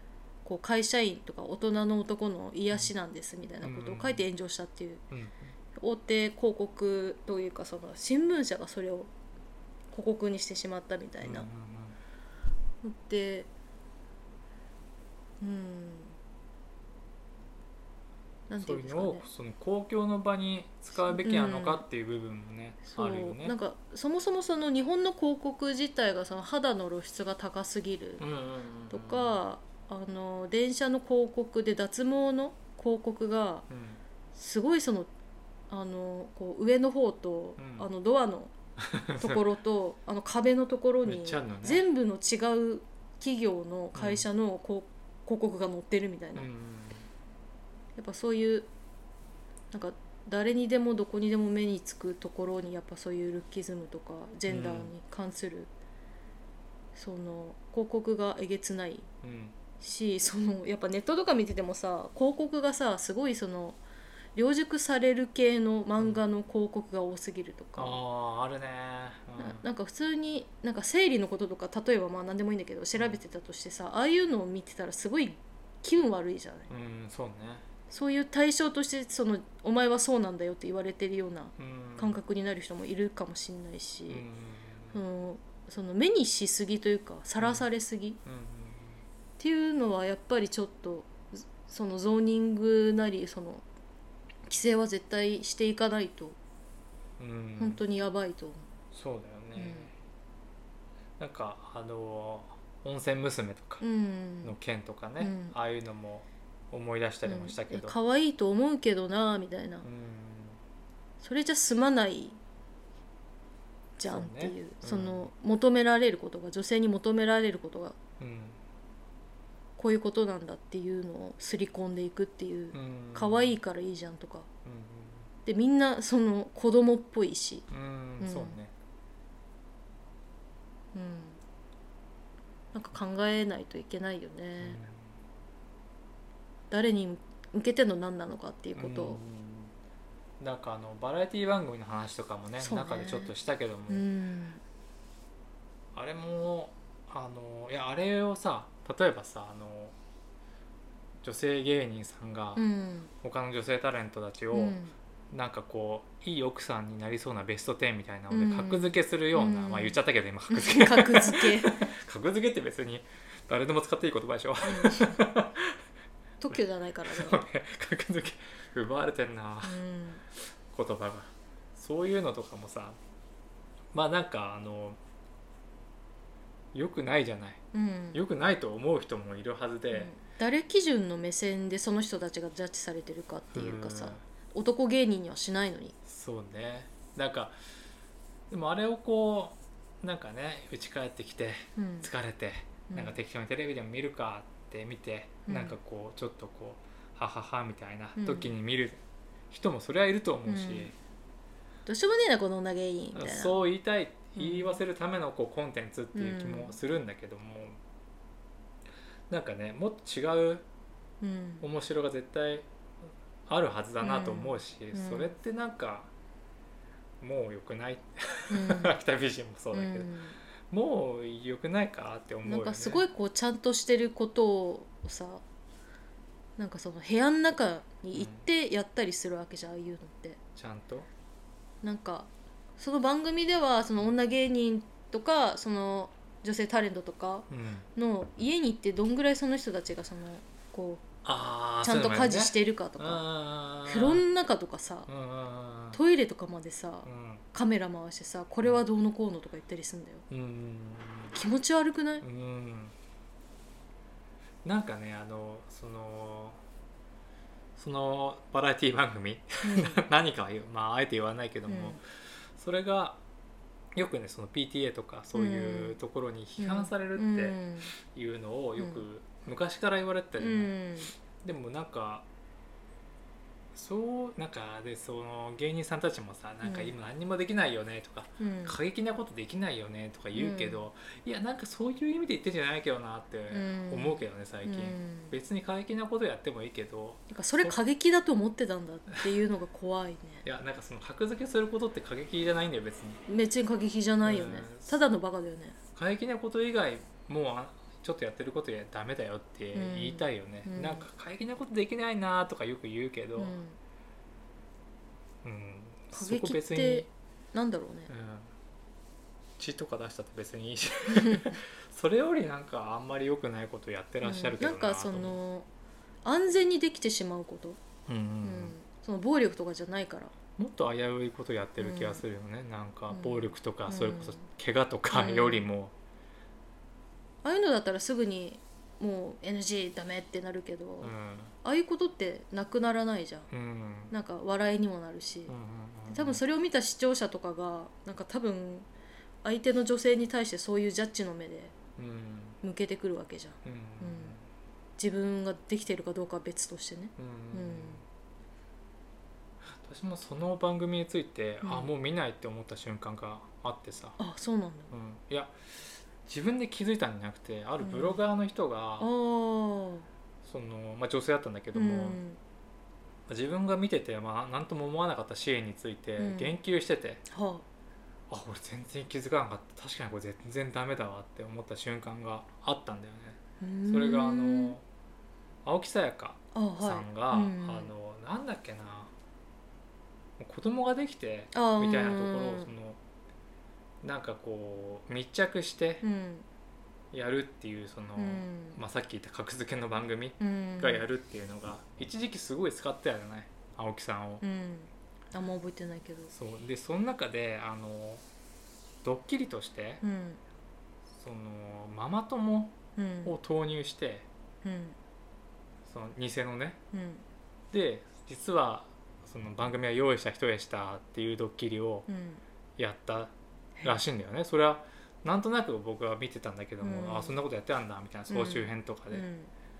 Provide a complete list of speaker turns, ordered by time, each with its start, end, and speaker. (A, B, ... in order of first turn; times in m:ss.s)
0:00.4-0:05.0 A
0:03.6-0:04.2 B
0:05.1-0:05.5 B
0:05.7-0:09.1 A
0:09.9-0:11.5 A
0:11.2-0:12.0 B
0:12.8-0:13.5 A
0:15.4-0:16.2 A
0:18.5-0:19.2 A
0:18.6-0:23.5 B
0:21.0-0:21.8 A
0:22.9-0:28.2 A
0:28.2-0:29.4 B
0:28.9-0:33.6 A
0:33.7-0:34.0 B
0:34.3-0:35.1 A
0:35.7-0:38.5 A
0:37.6-0:37.9 B
0:38.8-0:39.4 B
0:39.2-0:46.5 A
0:41.0-0:41.8 B
0:43.9-0:44.2 B
0:46.4-0:47.0 B
0:48.0-0:48.7 A
0:49.7-0:55.7 A
0:54.5-0:54.9 B
0:56.9-0:59.1 A
0:59.2-0:59.5 B
0:59.8-1:03.8 A
1:04.3-1:08.0 A
1:07.8-1:09.6 B
1:09.4-1:16.7 A
1:12.9-1:13.2 B
1:16.7-1:17.6 B
1:17.9-1:24.2 A
1:21.6-1:22.2 B
1:24.1-1:25.0 B
1:24.9-1:28.2 A
1:27.4-1:27.7 B
1:28.2-1:29.0 B
1:29.4-1:33.6 A
1:34.4-1:36.4 A
1:37.2-1:37.8 B
1:37.6-1:38.7 A
1:38.9-1:39.9 B
1:39.6-1:39.9 A
1:41.2-1:43.8 B
1:43.8-1:44.6 A
1:44.4-1:47.9 B
1:45.2-1:45.6 A
1:47.2-1:49.8 A
1:49.8-1:50.6 B
1:51.2-1:52.4 A
1:54.0-1:58.0 A
1:54.1-1:55.3 B
1:58.2-1:58.6 B
1:59.8-2:04.5 A
2:02.7-2:03.6 B
2:04.6-2:05.3 B
2:05.4-2:07.6 A
2:07.7-2:08.7 B
2:08.2-2:08.6 A
2:10.9-2:11.4 A
2:12.7-2:14.8 A
2:14.6-2:15.1 B
2:16.7-2:19.2 A
2:18.8-2:19.7 B
2:20.4-2:24.0 B
2:22.6-2:23.3 A
2:23.9-2:24.6 A
2:25.9-2:29.9 B
2:31.2-2:32.6 B
2:32.6-2:33.1 A
2:33.2-2:34.8 B
2:34.5-2:34.9 A
2:35.3-2:45.8 B
2:38.3-2:40.0 A
2:40.5-2:41.9 A
2:44.6-2:45.2 A
2:46.4-2:47.4 A
2:46.5-2:49.8 B
2:49.6-2:50.2 A
2:50.4-2:53.0 B
2:53.9-2:55.0 B
2:56.7-2:57.6 B
2:57.7-2:58.2 A
2:58.1-3:00.1 B
2:59.9-3:05.9 A
3:03.5-3:04.2 B
3:06.0-3:07.6 B
3:08.5-3:20.9 B
3:11.8-3:12.1 A
3:12.9-3:13.2 A
3:15.5-3:15.8 A
3:18.2-3:18.5 A
3:20.4-3:20.9 A
3:21.8-3:23.6 A
3:23.1-3:27.8 B
3:24.4-3:24.8 A
3:26.1-3:26.8 A
3:29.3-3:30.6 B
3:31.2-3:31.6 A
3:31.6-3:32.7 B
3:33.5-3:36.1 B
3:34.0-3:35.3 A
3:37.2-3:40.1 B
3:38.5-3:39.0 A
3:39.7-3:40.4 A
3:40.7-3:43.0 B
3:42.4-3:45.4 A
3:46.6-3:50.4 A
3:48.1-3:48.4 B
3:50.6-3:51.1 B
3:51.8-4:01.0 A
3:57.5-3:57.8 B
4:01.2-4:04.2 B
4:01.8-4:03.2 A
4:03.8-4:05.1 A
4:05.1-4:06.0 B
4:05.9-4:10.2 A
4:07.0-4:07.4 B
4:10.3-4:11.4 B
4:11.3-4:12.2 A
4:12.2-4:12.9 B
4:14.6-4:16.6 B
4:17.8-4:23.2 B
4:19.6-4:20.0 A
4:21.7-4:22.0 A
4:23.9-4:30.8 B
4:25.3-4:26.0 A
4:26.6-4:27.9 A
4:28.8-4:29.0 A
4:30.4-4:31.1 A
4:31.4-4:32.2 B
4:33.7-4:47.8 B
4:36.6-4:36.9 A
4:38.4-4:38.8 A
4:40.3-4:40.8 A
4:43.5-4:45.4 A
4:47.3-4:50.4 A
4:50.4-4:53.2 B
4:53.3-4:55.8 A
4:54.2-4:55.0 B
4:55.9-5:03.6 B
4:59.7-5:01.1 A
5:03.4-5:03.8 A
5:05.4-5:07.1 B
5:06.1-5:08.1 A
5:08.1-5:08.5 B
5:09.6-5:15.4 B
5:11.1-5:11.6 A
5:14.2-5:15.7 A
5:16.2-5:17.8 A
5:18.1-5:18.7 B
5:18.4-5:20.3 A
5:20.6-5:25.9 B
5:21.8-5:22.2 A
5:23.1-5:24.4 A
5:25.1-5:25.7 A
5:27.4-5:33.5 A
5:31.0-5:31.5 B
5:33.5-5:34.1 B
5:34.1-5:35.5 A
5:35.5-5:36.4 B
5:36.1-5:38.9 A
5:39.4-5:41.7 A
5:42.0-5:42.6 B
5:42.6-5:44.4 A
5:43.6-5:44.4 B
5:45.0-5:48.0 A
5:47.2-5:48.0 B
5:49.8-5:54.2 B
5:51.6-5:51.9 A
5:54.2-5:54.9 A
5:54.9-5:59.1 B
5:57.8-5:58.2 A
5:59.0-6:00.1 A
6:00.4-6:02.2 B
6:01.7-6:02.4 A
6:03.3-6:07.2 B
6:06.2-6:06.6 A
6:07.3-6:07.6 A
6:08.3-6:14.8 B
6:13.6-6:14.7 A
6:15.6-6:19.1 B
6:16.5-6:17.9 A
6:20.4-6:23.0 B
6:21.5-6:22.7 A
6:24.0-6:26.0 B
6:26.0-6:26.4 A
6:27.1-6:34.4 B
6:28.2-6:28.8 A
6:30.4-6:31.0 A
6:34.4-6:36.3 A
6:36.3-6:38.2 B
6:39.0-6:40.0 B
6:40.0-6:40.4 A
6:41.1-6:44.2 B
6:43.0-6:43.3 A
6:44.6-6:45.0 A
6:45.8-6:46.8 B
6:46.9-6:47.2 A
6:47.7-6:52.1 B
6:52.1-6:52.4 A
6:52.8-6:59.2 B
6:56.8-6:57.4 A
6:58.3-6:59.5 A